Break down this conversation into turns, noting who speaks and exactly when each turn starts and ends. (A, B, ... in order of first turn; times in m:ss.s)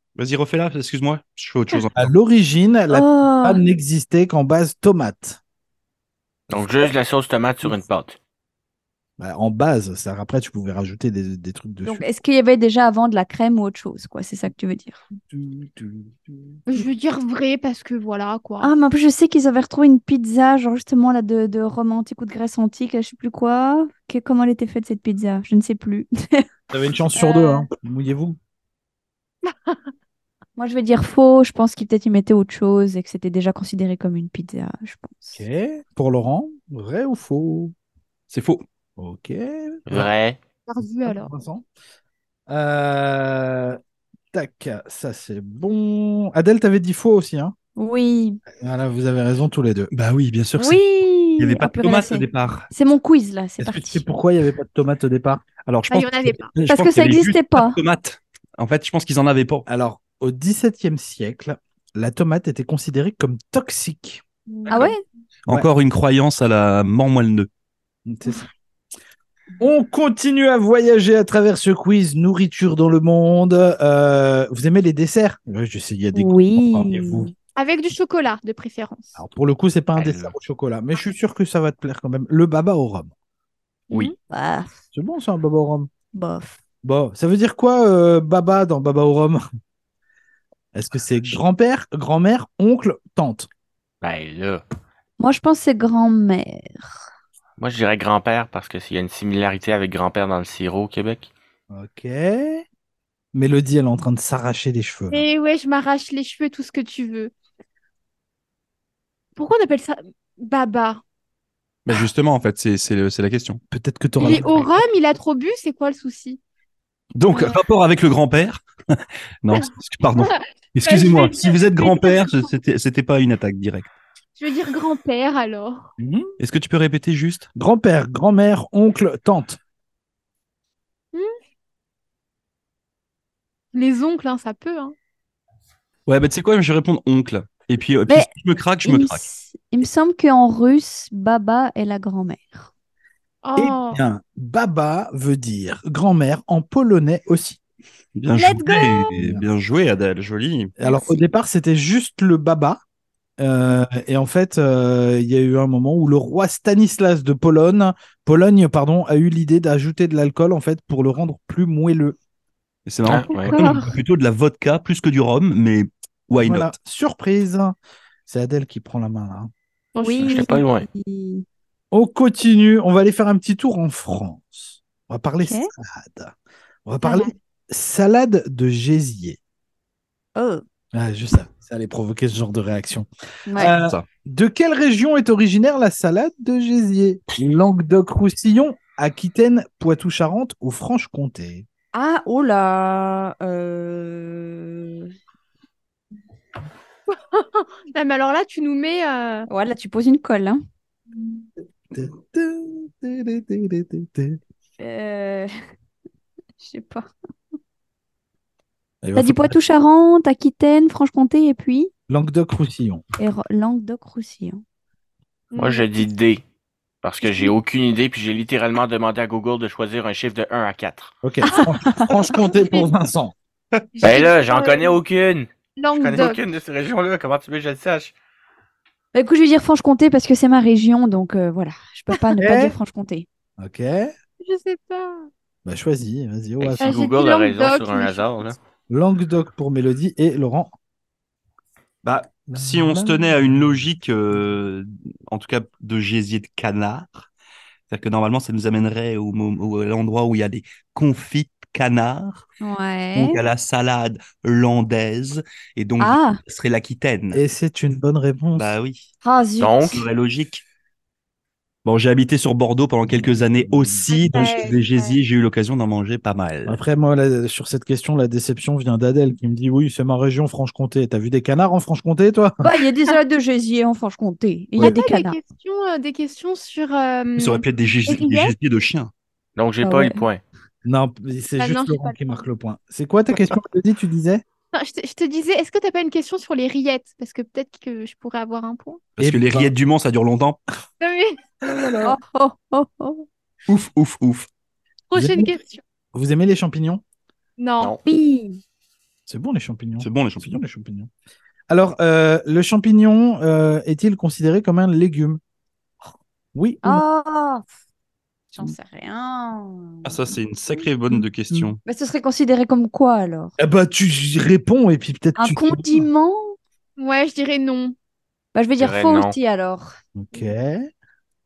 0:00.2-0:02.1 A
0:02.0-0:05.4 B
0:02.9-0:03.6 C
0:06.5-0:08.2 D
0:09.2-0:12.1 B
0:11.8-0:15.0 C
0:15.2-0:16.6 B
0:16.7-0:18.7 E
0:18.6-0:26.5 C
0:26.7-0:28.4 B
0:27.1-0:27.6 C
0:29.4-0:29.8 E
0:30.6-0:35.4 C
0:35.3-0:37.7 B
0:38.3-0:38.6 A
0:39.0-0:40.1 B
0:39.9-0:40.4 D
0:40.7-0:41.3 E
0:41.0-0:41.7 B
0:42.5-0:43.8 B
0:44.3-0:47.6 B
0:47.8-0:48.4 C
0:48.6-0:49.9 B
0:49.9-0:50.8 A
0:50.6-0:54.0 C
0:51.4-0:52.7 A
0:53.6-0:55.4 B
0:55.7-0:59.7 A
0:55.9-0:56.5 E
0:56.7-0:57.8 C
0:59.7-1:04.2 B
1:04.5-1:04.9 E
1:04.7-1:05.0 C
1:05.5-1:07.5 A
1:08.1-1:08.5 B
1:09.6-1:17.3 B
1:16.1-1:17.3 C
1:17.6-1:19.2 E
1:19.2-1:23.1 B
1:19.9-1:20.4 D
1:23.9-1:24.1 E
1:24.3-1:24.7 C
1:24.9-1:25.9 B
1:26.1-1:26.6 C
1:26.8-1:29.4 B
1:30.7-1:33.5 B
1:34.0-1:34.6 D
1:35.2-1:37.0 C
1:37.6-1:41.3 D
1:41.7-1:42.6 B
1:43.3-1:45.2 B
1:45.1-1:47.3 E
1:49.4-1:51.0 E
1:51.9-1:53.6 A
1:53.7-1:54.7 B
1:54.2-1:56.4 E
1:57.1-2:03.9 A
1:57.3-1:57.6 E
2:00.2-2:02.4 E
2:04.4-2:05.9 E
2:06.0-2:06.3 B
2:06.4-2:07.5 A
2:07.6-2:09.6 B
2:13.7-2:14.9 E
2:16.1-2:19.2 A
2:18.8-2:22.7 C
2:23.4-2:24.0 E
2:23.6-2:27.6 B
2:28.2-2:30.7 A
2:28.4-2:29.1 E
2:29.2-2:29.4 B
2:30.8-2:32.8 B
2:30.8-2:31.1 C
2:33.4-2:42.2 B
2:42.9-2:46.7 A
2:43.1-2:43.6 D
2:43.4-2:43.9 E
2:46.4-2:47.8 B
2:48.3-2:49.5 B
2:49.9-2:50.5 E
2:50.0-2:51.4 C
2:50.2-2:50.9 D
2:51.9-2:56.3 B
2:55.4-2:55.7 C
2:56.9-2:59.4 B
2:57.0-2:57.3 C
3:00.4-3:00.6 C
3:00.9-3:11.7 B
3:03.5-3:03.8 C
3:03.8-3:04.0 A
3:11.9-3:15.1 C
3:17.1-3:19.5 E
3:19.5-3:20.6 C
3:21.9-3:24.4 B
3:24.8-3:25.5 C
3:26.6-3:27.1 C
3:29.0-3:29.6 B
3:29.1-3:31.9 C
3:32.1-3:33.0 B
3:33.2-3:34.6 C
3:35.5-3:35.9 E
3:35.6-3:36.4 D
3:37.0-3:41.1 D
3:41.2-3:43.4 B
3:41.5-3:42.1 C
3:42.5-3:42.9 E
3:44.0-3:45.0 E
3:44.0-3:48.1 D
3:45.8-3:46.4 E
3:49.1-3:53.3 C
3:52.4-3:52.8 B
3:53.6-3:54.1 B
3:54.4-3:55.3 E
3:55.6-3:57.0 B
3:56.6-3:58.6 D
3:56.8-3:58.3 E
3:58.9-4:00.7 B
4:02.0-4:07.3 A
4:02.5-4:03.7 B
4:07.9-4:12.4 A
4:12.6-4:13.4 C
4:13.1-4:17.4 A
4:16.0-4:16.4 C
4:17.3-4:18.7 B
4:18.6-4:19.1 A
4:19.2-4:20.0 C
4:19.6-4:20.0 D
4:19.9-4:20.6 A
4:21.8-4:26.8 A
4:23.1-4:24.0 B
4:24.1-4:25.1 E
4:26.6-4:32.6 B
4:32.6-4:35.4 C
4:34.8-4:38.5 E
4:37.4-4:39.1 A
4:39.6-4:40.4 D
4:39.8-4:40.2 C
4:40.8-4:44.4 B
4:41.6-4:42.2 E
4:44.7-4:49.0 E
4:49.2-4:50.6 A
4:49.2-4:49.7 B
4:51.0-4:51.5 E
4:51.6-4:52.2 B
4:52.0-4:53.2 C
4:53.7-4:54.5 A
4:55.1-4:55.8 E
4:55.1-4:55.5 B
4:56.1-4:57.0 B
4:57.6-4:58.0 E
4:58.0-4:58.6 C
4:59.3-5:01.1 B
5:00.0-5:00.6 A
5:01.7-5:05.4 B
5:06.5-5:07.0 B
5:06.8-5:07.7 C
5:08.5-5:10.2 C
5:10.0-5:11.8 A
5:11.8-5:13.5 C
5:13.6-5:16.1 B
5:15.4-5:16.6 C
5:17.0-5:18.0 E
5:18.5-5:20.0 C
5:18.8-5:19.4 D
5:20.2-5:20.9 B